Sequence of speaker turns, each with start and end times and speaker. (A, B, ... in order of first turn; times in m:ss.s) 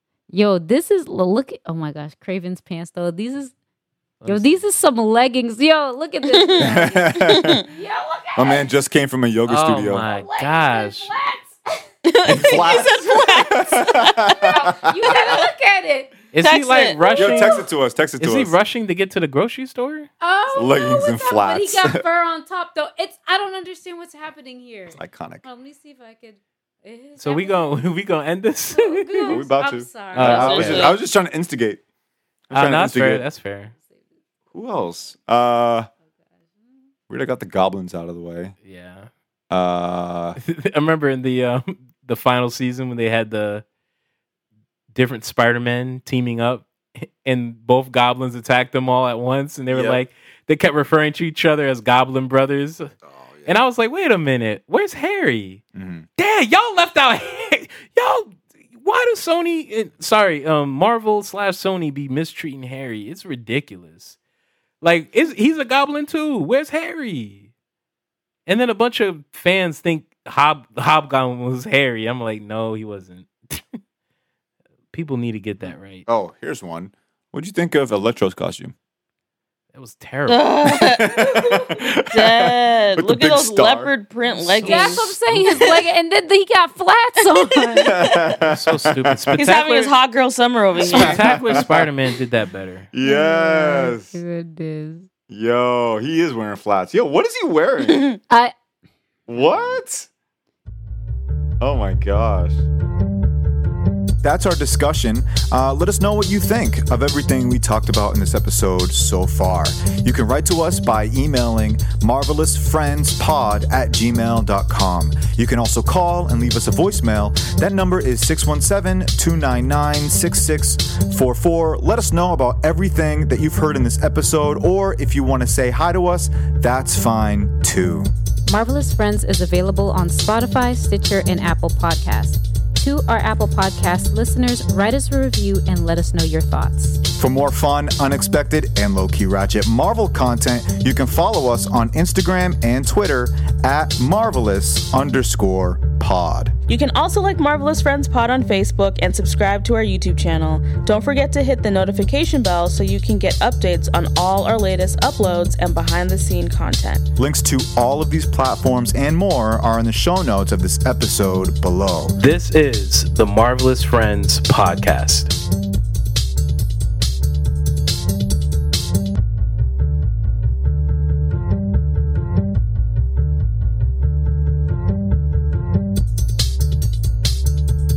0:00.3-0:03.5 A
0:04.2-0:04.6 B
0:04.2-0:08.7 A
0:06.2-0:07.6 C
0:06.6-0:07.6 D
0:08.4-0:10.1 D
0:09.5-0:11.1 B
0:10.0-0:11.8 A
0:12.0-0:14.6 C
0:12.2-0:15.2 D
0:14.4-0:16.1 A
0:16.3-0:17.6 B
0:16.4-0:17.3 C
0:17.2-0:18.6 D
0:18.2-0:20.1 B
0:20.2-0:27.7 A
0:20.5-0:22.0 D
0:24.9-0:25.4 D
0:27.2-0:29.4 B
0:28.7-0:30.9 A
0:29.3-0:31.8 D
0:30.1-0:30.9 B
0:30.2-0:31.0 C
0:32.5-0:33.2 D
0:32.5-0:33.7 B
0:34.5-0:35.9 D
0:37.1-0:38.5 D
0:38.6-0:39.1 B
0:39.5-0:40.4 D
0:40.4-0:43.6 B
0:44.9-0:55.6 B
0:49.7-0:50.0 D
0:53.1-0:53.6 D
0:55.7-0:56.0 D
0:56.2-1:04.2 B
1:04.8-1:07.5 B
1:08.5-1:13.8 B
1:14.9-1:16.1 B
1:15.6-1:18.7 D
1:19.7-1:20.5 B
1:20.3-1:21.2 C
1:20.6-1:23.9 D
1:22.1-1:25.1 C
1:24.2-1:25.4 B
1:24.6-1:28.0 A
1:27.2-1:28.4 C
1:27.8-1:29.4 D
1:28.4-1:30.0 B
1:29.3-1:31.6 C
1:30.8-1:31.9 D
1:30.8-1:32.9 B
1:32.9-1:34.2 D
1:33.0-1:35.1 A
1:35.3-1:38.0 D
1:37.8-1:38.2 C
1:39.3-1:40.1 D
1:41.6-1:42.6 D
1:44.2-2:08.1 D
2:08.5-2:17.0 A
2:17.1-2:26.5 D
2:26.7-2:37.0 C
2:37.2-2:42.1 D
2:42.2-2:45.3 B